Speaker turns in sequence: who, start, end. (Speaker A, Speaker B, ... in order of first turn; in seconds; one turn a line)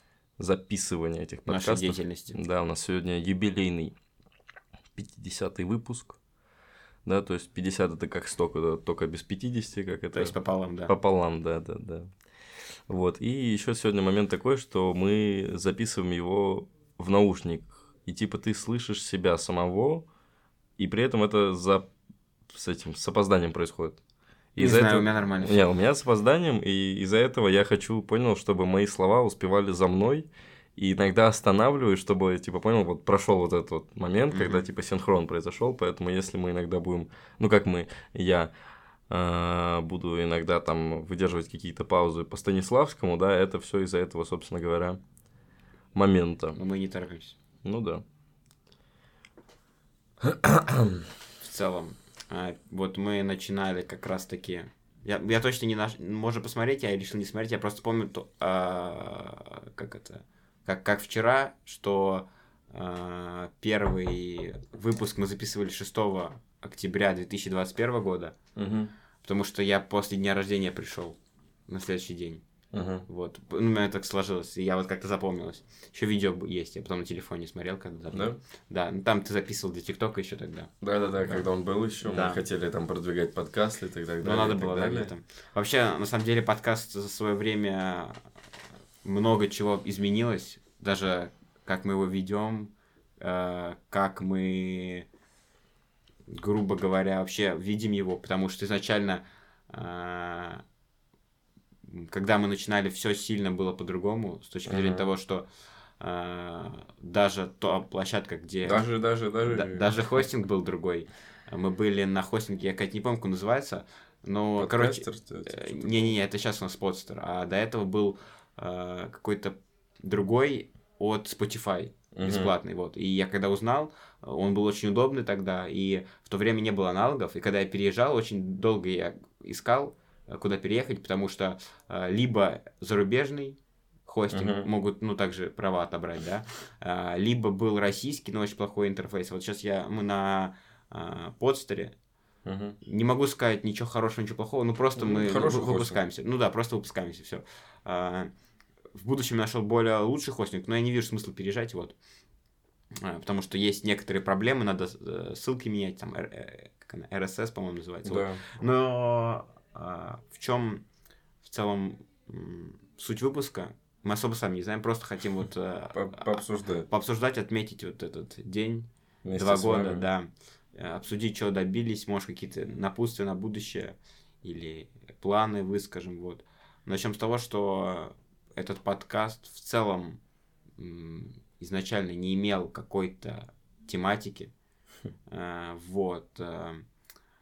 Speaker A: 0.4-3.9
Speaker B: 1.5-2.4
Speaker A: 5.0-6.2
Speaker A: 7.0-10.3
Speaker B: 10.1-10.9
Speaker A: 10.9-12.1
Speaker A: 12.9-20.1
Speaker A: 20.8-21.9
Speaker A: 22.5-24.0
Speaker A: 24.6-38.5
Speaker B: 24.6-25.6
Speaker B: 34.3-34.6
Speaker A: 39.1-45.0
Speaker A: 45.9-46.6
Speaker B: 46.5-47.4
Speaker A: 47.6-48.0
Speaker A: 50.2-51.0
Speaker B: 51.4-68.3
Speaker A: 68.5-68.9
Speaker B: 69.2-71.2
Speaker B: 71.7-72.4
Speaker A: 72.7-73.0
Speaker B: 73.1-80.7
Speaker A: 78.1-78.4
Speaker A: 80.8-85.1
Speaker B: 82.0-82.4
Speaker B: 84.2-88.2
Speaker B: 89.0-95.1
Speaker B: 96.3-100.6
Speaker B: 101.8-105.4
Speaker A: 104.7-105.1
Speaker B: 106.0-108.8
Speaker A: 108.6-110.0
Speaker B: 109.4-141.9
Speaker A: 114.6-116.2
Speaker A: 122.1-122.5
Speaker A: 134.3-134.7
Speaker A: 142.4-142.8
Speaker B: 142.8-148.3
Speaker A: 145.0-146.0
Speaker B: 148.9-151.9
Speaker B: 152.9-160.8
Speaker A: 158.0-158.4
Speaker B: 161.4-180.2
Speaker A: 165.9-166.9
Speaker A: 169.2-170.1
Speaker B: 180.8-184.5
Speaker B: 185.3-186.8